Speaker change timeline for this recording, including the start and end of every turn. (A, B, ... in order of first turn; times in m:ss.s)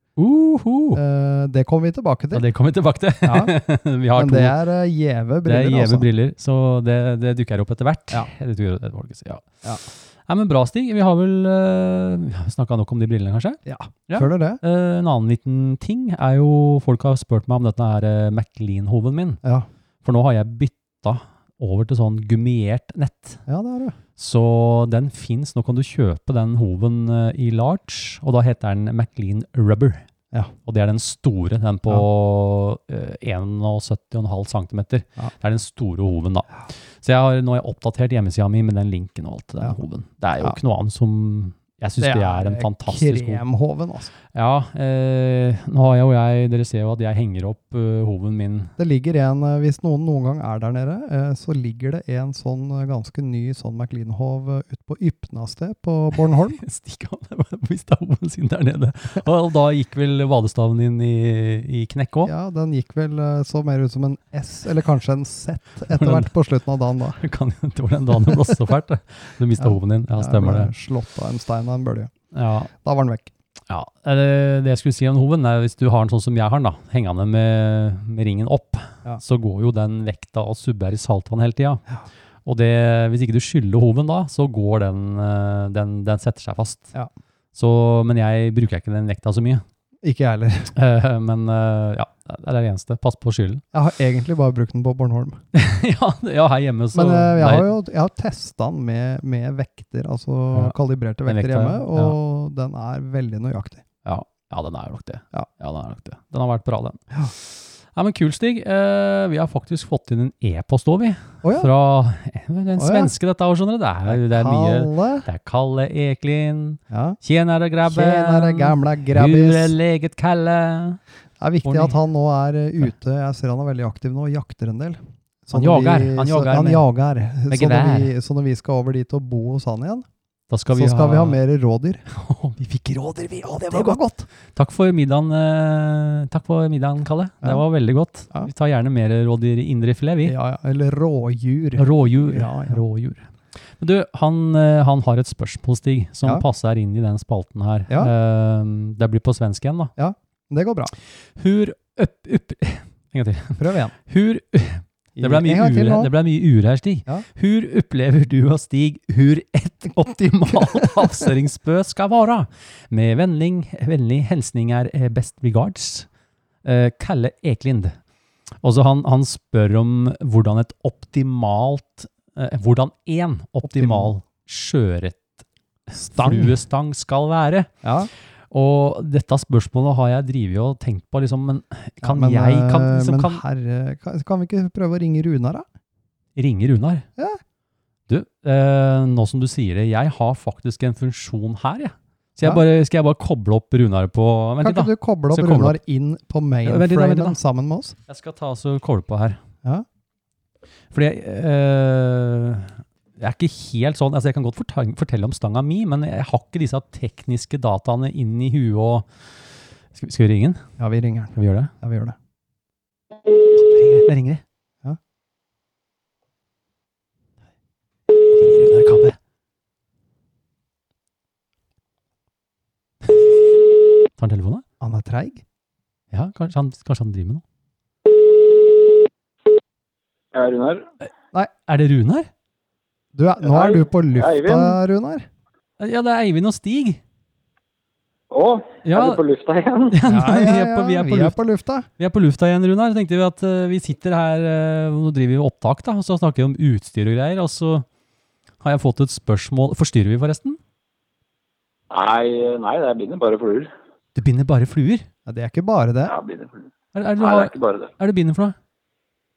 0:00.2-0:01.0 A
0:00.9-0:02.5 B
0:02.3-0:04.6 A
0:03.2-0:03.5 B
0:04.1-0:06.0 B
0:05.4-0:19.4 A
0:13.6-0:14.6 B
0:20.0-0:23.4 A
0:23.5-0:24.0 B
0:24.2-0:30.0 A
0:30.6-0:43.4 A
0:42.0-0:44.1 B
0:44.3-0:48.7 A
0:48.8-0:56.6 B
0:56.6-1:02.3 A
1:02.2-1:07.2 B
1:05.9-1:06.3 A
1:07.2-1:10.7 A
1:09.6-1:12.1 B
1:12.3-1:12.7 A
1:12.7-1:13.3 B
1:13.7-1:21.8 A
1:22.4-1:26.9 A
1:27.5-1:29.6 A
1:30.0-1:30.7 B
1:30.7-1:33.6 A
1:33.7-1:35.4 B
1:35.5-1:37.7 A
1:36.9-1:43.8 B
1:41.2-1:42.2 A
1:44.0-2:01.0 A
1:51.4-1:51.7 B
1:52.8-1:53.1 B
1:54.1-1:55.3 B
1:56.9-1:57.2 B
1:57.8-1:59.7 B
2:01.4-2:10.0 B
2:01.6-2:01.9 A
2:05.5-2:06.8 A
2:07.5-2:08.1 A
2:10.5-2:11.4 A
2:10.7-2:12.0 B
2:12.1-2:20.3 A
2:13.6-2:14.2 B
2:20.2-2:22.8 B
2:21.8-2:23.3 A
2:23.8-2:29.9 A
2:30.0-2:30.9 B
2:31.3-2:46.1 A
2:33.6-2:33.9 B
2:35.2-2:36.1 B
2:40.4-2:40.9 B
2:46.6-2:48.0 A
2:48.6-2:57.7 A
2:53.6-2:54.1 B
2:56.1-2:56.5 B
2:57.8-2:58.1 B
2:58.5-3:03.4 A
3:02.0-3:05.6 B
3:06.4-3:07.0 A
3:08.1-3:15.8 A
3:14.6-3:17.9 B
3:16.6-3:17.4 A
3:18.1-3:19.4 A
3:20.9-3:29.2 A
3:29.9-3:30.7 A
3:30.8-3:32.2 B
3:31.3-3:31.7 A
3:33.5-3:34.4 A
3:38.3-3:39.2 A
3:44.2-3:44.6 A
3:44.8-3:45.4 B
3:46.1-3:47.4 A
3:50.3-3:50.9 C
3:51.7-3:52.3 A
3:53.1-3:55.2 B
3:53.4-3:54.8 C
3:55.8-3:57.0 A
3:58.3-4:00.0 C
3:58.8-3:59.2 A
3:59.9-4:01.4 A
4:00.1-4:01.9 B
4:02.0-4:07.8 A
4:08.6-4:10.6 A
4:11.9-4:13.7 C
4:14.1-4:15.1 A
4:15.2-4:16.1 B
4:16.0-4:16.7 C
4:16.9-4:18.6 A
4:17.2-4:17.9 C